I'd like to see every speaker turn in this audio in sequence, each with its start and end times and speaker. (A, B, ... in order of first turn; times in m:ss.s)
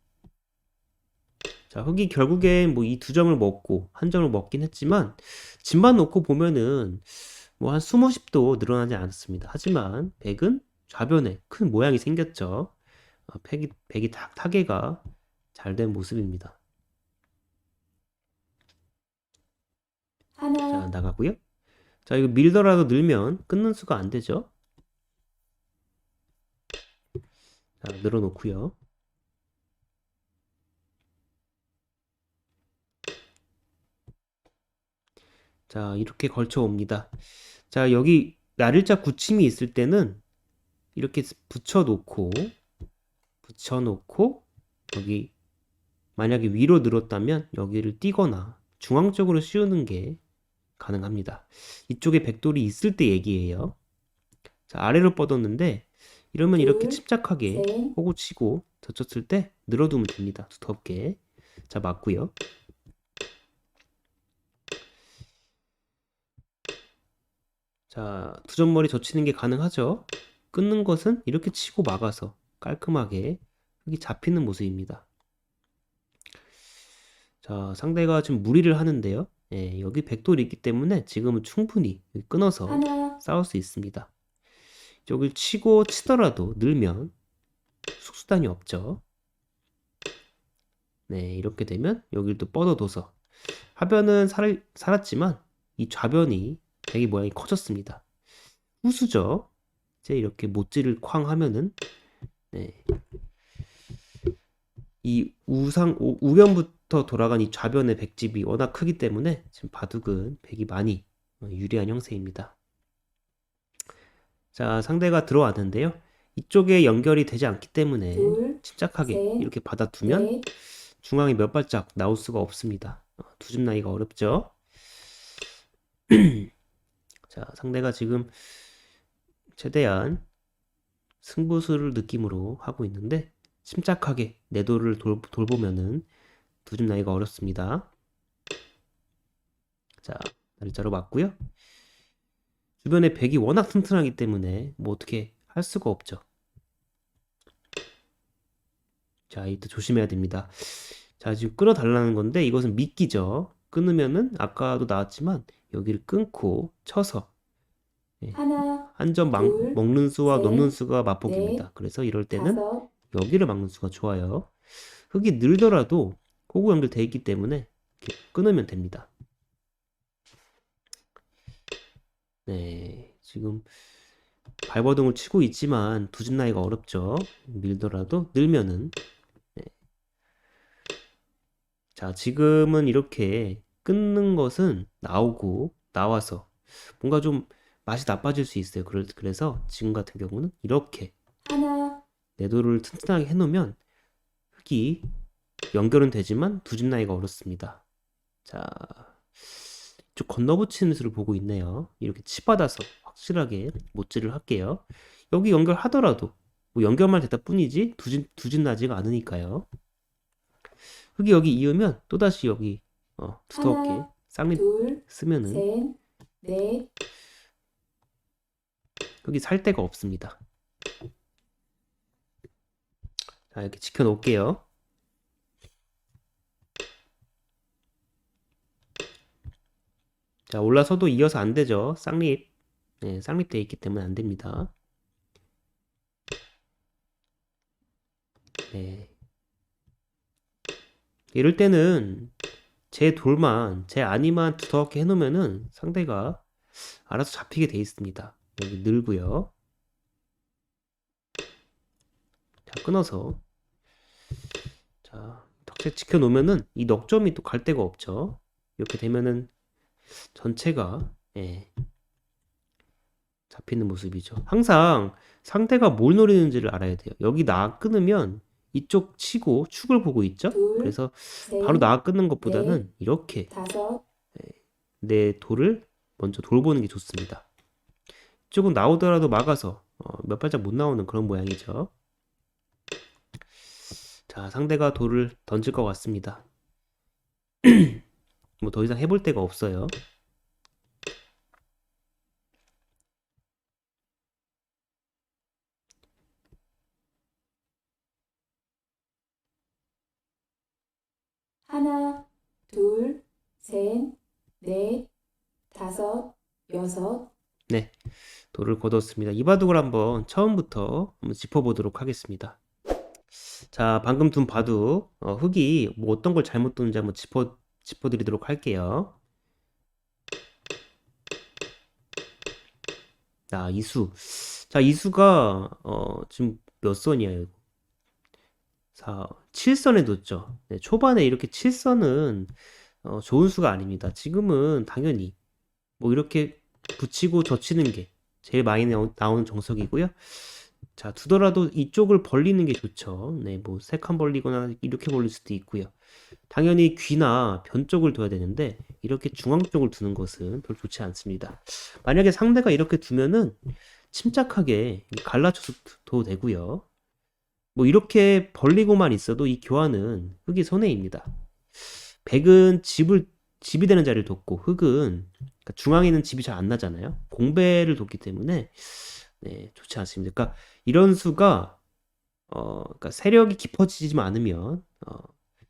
0:01.7-0:12.7 A
0:13.3-0:15.0 A
0:15.5-0:16.6 A
0:20.3-0:20.8 B
0:20.7-0:21.4 A
0:22.0-0:24.5 A
0:27.8-0:28.8 A
0:35.7-0:37.1 A
0:37.7-0:40.2 A
0:40.9-0:42.6 A
0:43.4-0:45.3 A
0:46.2-0:50.2 A
0:50.8-0:53.8 A
0:54.7-1:02.3 A
0:56.6-0:57.9 B
1:07.9-1:15.0 A
1:17.4-1:24.1 A
1:22.7-1:23.2 B
1:25.0-1:27.1 A
1:28.0-1:29.0 A
1:31.1-1:33.2 A
1:33.7-1:38.0 A
1:38.8-1:39.5 A
1:40.0-1:41.7 A
1:42.5-1:42.8 A
1:45.0-1:52.5 A
1:54.5-2:04.5 A
1:58.1-1:59.5 B
2:00.0-2:00.4 B
2:06.1-2:06.5 A
2:07.3-2:08.3 A
2:09.5-2:10.2 A
2:11.2-2:16.0 A
2:16.6-2:17.9 A
2:20.0-2:21.4 A
2:22.8-2:26.2 A
2:29.3-2:37.3 A
2:38.2-2:44.5 A
2:38.3-2:41.6 B
2:42.3-2:42.9 B
2:45.1-2:49.1 A
2:52.4-2:53.7 A
2:54.7-2:59.0 A
3:01.9-3:11.1 A
3:11.4-3:12.0 B
3:12.4-3:13.8 A
3:14.6-3:15.1 A
3:15.7-3:17.8 A
3:18.4-3:19.6 A
3:20.1-3:29.7 A
3:31.1-3:35.6 A
3:33.5-3:36.9 B
3:39.2-3:40.4 A
3:43.5-3:44.6 A
3:50.5-3:52.5 A
3:53.0-3:54.7 A
3:58.7-3:59.1 A
4:01.3-4:02.3 A
4:02.9-4:09.5 A
4:12.6-4:13.4 A
4:15.0-4:19.5 A
4:20.2-4:21.7 A
4:23.5-4:33.5 A
4:30.5-4:31.9 B
4:32.4-4:32.8 B
4:33.5-4:34.0 B
4:34.3-4:37.4 A
4:38.5-4:41.9 A
4:44.3-4:46.4 A
4:47.6-4:48.0 A
4:48.6-4:50.0 A
5:01.7-5:05.1 B
5:05.7-5:07.3 B
5:07.7-5:07.9 A
5:08.5-5:12.6 A
5:13.6-5:19.1 A
5:23.5-5:27.5 A
5:28.9-5:35.3 A
5:36.0-5:45.9 A
5:46.5-5:56.8 A
5:57.7-6:11.8 A
6:12.5-6:15.3 A